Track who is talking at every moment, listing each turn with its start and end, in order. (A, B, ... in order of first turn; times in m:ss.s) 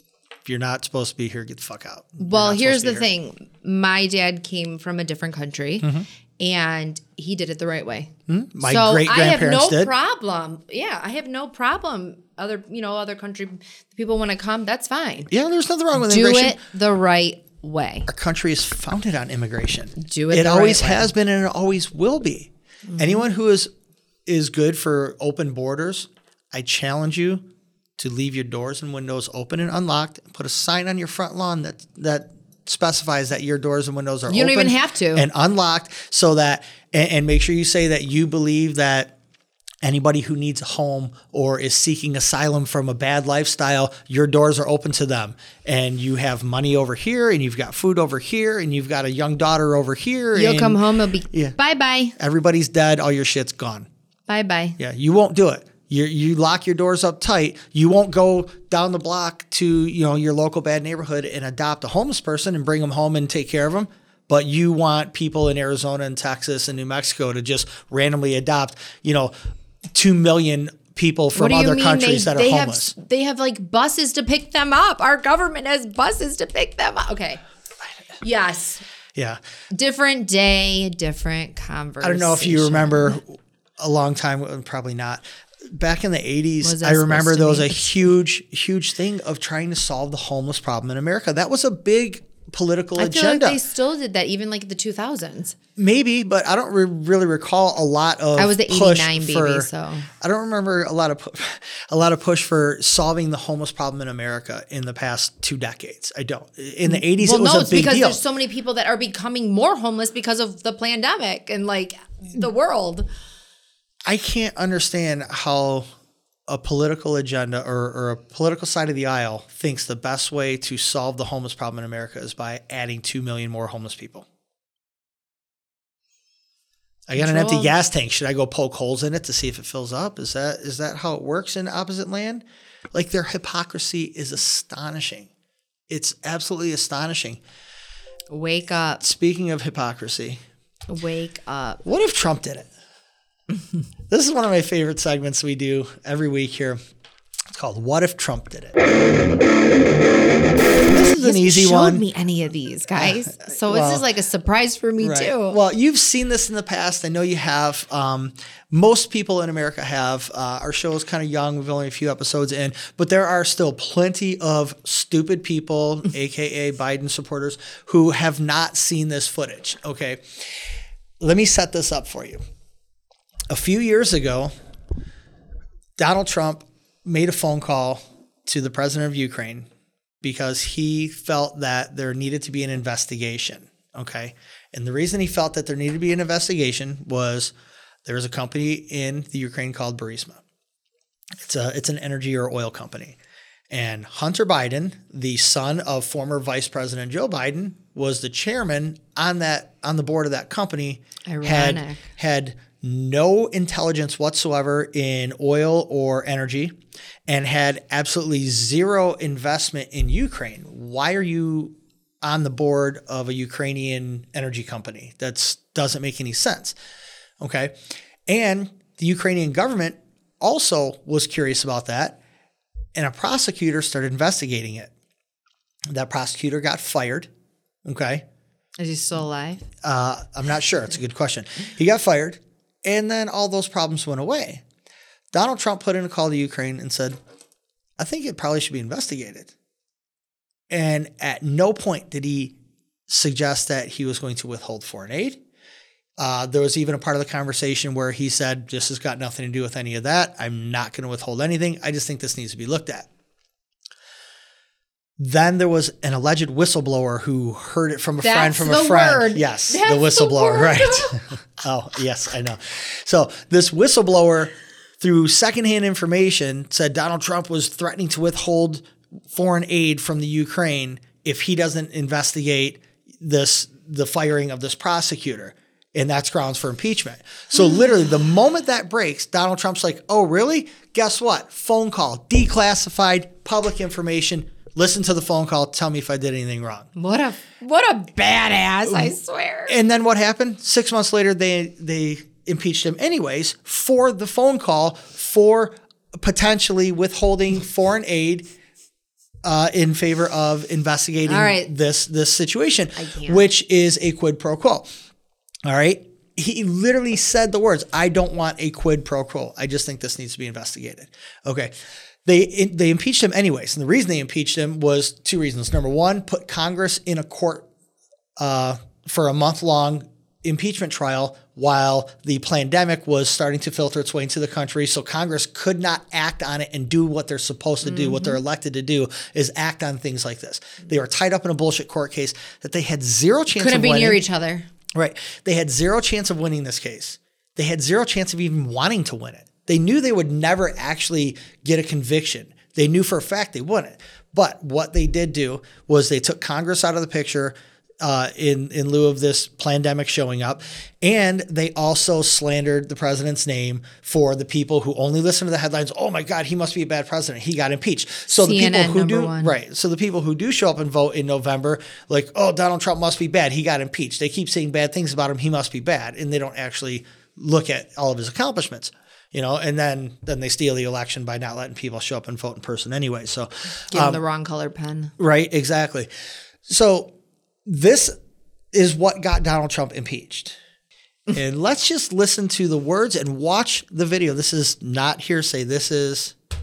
0:00.4-0:03.1 A
0:02.2-0:08.1 B
0:05.8-0:06.1 A
0:08.3-0:09.9 A
0:08.6-0:15.3 B
0:15.3-0:16.6 A
0:15.9-0:18.1 B
0:18.1-0:23.7 A
0:20.0-0:21.1 B
0:22.9-0:23.2 B
0:24.2-0:27.4 A
0:28.0-0:39.1 A
0:34.3-0:35.3 B
0:39.8-0:51.6 A
0:50.3-0:52.1 B
0:52.2-0:53.9 A
0:54.3-0:54.8 B
0:54.8-1:09.3 A
1:09.9-1:12.9 A
1:11.3-1:17.4 B
1:18.2-1:18.8 B
1:19.7-1:23.2 B
1:22.0-1:33.6 A
1:26.6-1:28.0 B
1:33.0-1:35.5 B
1:35.8-1:39.7 A
1:38.4-1:40.1 B
1:40.2-1:48.2 A
1:46.8-1:53.1 B
1:54.0-1:55.9 A
1:56.5-2:04.3 A
2:07.1-2:15.3 A
2:07.2-2:07.7 B
2:15.9-2:17.4 A
2:18.3-2:19.0 B
2:19.0-2:20.4 A
2:20.9-2:21.8 B
2:21.8-2:22.7 A
2:24.1-2:26.8 A
2:27.5-2:28.8 A
2:30.8-2:32.0 A
2:31.2-2:35.6 B
2:33.0-2:34.0 A
2:35.0-2:50.5 A
2:51.2-2:52.4 A
2:53.5-2:54.5 A
2:56.0-2:59.7 A
3:00.2-3:07.5 A
3:08.0-3:10.4 A
3:11.4-3:13.2 A
3:13.7-3:26.7 A
3:21.2-3:22.1 B
3:27.3-3:36.8 A
3:37.4-3:37.7 A
3:38.3-3:42.2 A
3:43.0-3:44.9 A
3:45.9-3:47.3 A
3:47.8-3:48.2 A
3:48.8-3:49.6 B
3:49.8-3:54.6 A
3:55.3-3:57.2 A
3:58.0-3:59.5 A
4:00.7-4:02.6 A
4:03.1-4:05.4 A
4:06.2-4:13.1 A
4:15.2-4:46.9 A
4:18.2-4:21.2 B
4:47.0-4:49.8 B
4:48.8-4:49.1 A
4:49.7-4:58.5 A
4:59.4-5:04.9 A
5:01.3-5:01.7 B
5:03.0-5:03.4 B
5:05.6-5:11.7 A
5:12.2-5:17.7 A
5:18.4-5:34.2 A
5:27.8-5:28.4 B
5:33.5-5:34.7 B
5:34.9-6:14.2 A
5:58.3-5:59.5 B
6:13.9-6:15.1 B
6:15.2-6:16.1 A
6:16.7-6:17.1 A
6:17.6-6:18.2 A
6:18.7-6:20.6 A
6:21.3-6:26.3 A